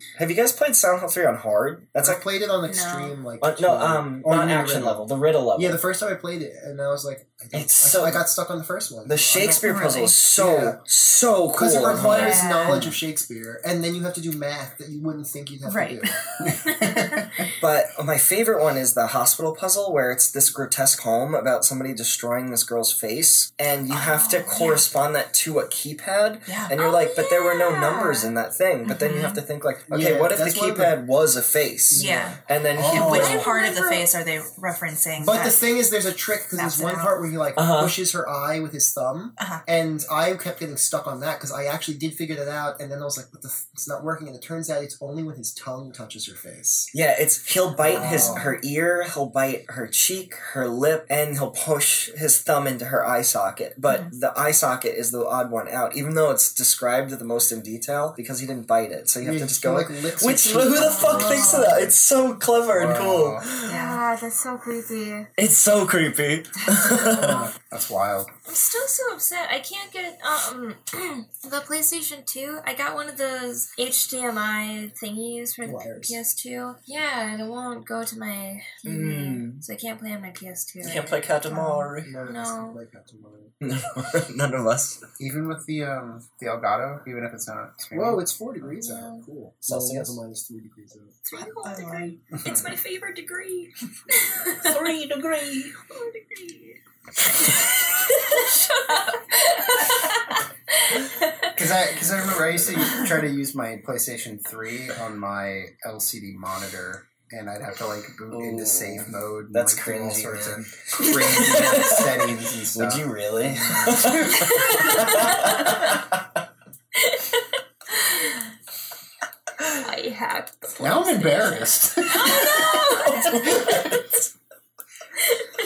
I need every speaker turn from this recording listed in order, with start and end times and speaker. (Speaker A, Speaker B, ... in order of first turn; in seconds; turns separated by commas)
Speaker A: 0.1-2.2, Speaker B: 2.0-5.0, Speaker C: 2.7-3.1, Speaker A: 3.4-5.8, Speaker B: 5.6-9.7, Speaker A: 7.5-8.2, Speaker A: 9.1-12.4, Speaker D: 9.6-10.2, Speaker B: 10.3-10.8, Speaker B: 11.6-16.2, Speaker D: 12.0-12.9, Speaker E: 12.7-13.0, Speaker D: 15.6-17.1, Speaker E: 16.4-17.4, Speaker A: 17.6-33.5, Speaker D: 23.9-24.9, Speaker D: 26.4-26.8, Speaker C: 26.8-28.3, Speaker D: 28.9-29.4, Speaker B: 29.9-31.0, Speaker B: 31.9-33.4, Speaker D: 31.9-35.6, Speaker E: 32.8-33.3, Speaker C: 33.0-34.1, Speaker B: 35.2-46.9, Speaker D: 36.5-37.1, Speaker A: 37.6-38.0, Speaker D: 39.4-39.6, Speaker A: 46.9-63.7, Speaker B: 47.9-48.4, Speaker D: 48.0-48.5, Speaker B: 59.2-61.9, Speaker C: 60.8-61.7, Speaker D: 61.2-61.7, Speaker E: 62.7-63.5, Speaker D: 63.6-64.0, Speaker C: 63.6-65.3, Speaker A: 65.4-67.4, Speaker C: 67.0-67.5, Speaker E: 67.2-68.3, Speaker C: 68.5-81.6, Speaker B: 75.6-76.2, Speaker A: 78.8-79.6, Speaker A: 80.8-82.1, Speaker D: 81.5-81.9, Speaker B: 82.0-83.6, Speaker C: 82.2-82.8, Speaker A: 83.6-85.0, Speaker E: 85.2-88.2, Speaker B: 87.9-91.4, Speaker C: 88.8-89.2, Speaker A: 89.7-90.2, Speaker C: 91.2-94.9, Speaker D: 91.6-92.2, Speaker D: 94.6-95.8, Speaker C: 95.8-96.8, Speaker C: 97.3-101.6, Speaker E: 101.5-114.6, Speaker A: 108.3-116.1, Speaker C: 114.8-115.2, Speaker C: 117.0-118.4, Speaker C: 119.6-123.6, Speaker E: 120.8-122.8, Speaker A: 122.9-124.0, Speaker E: 123.6-124.0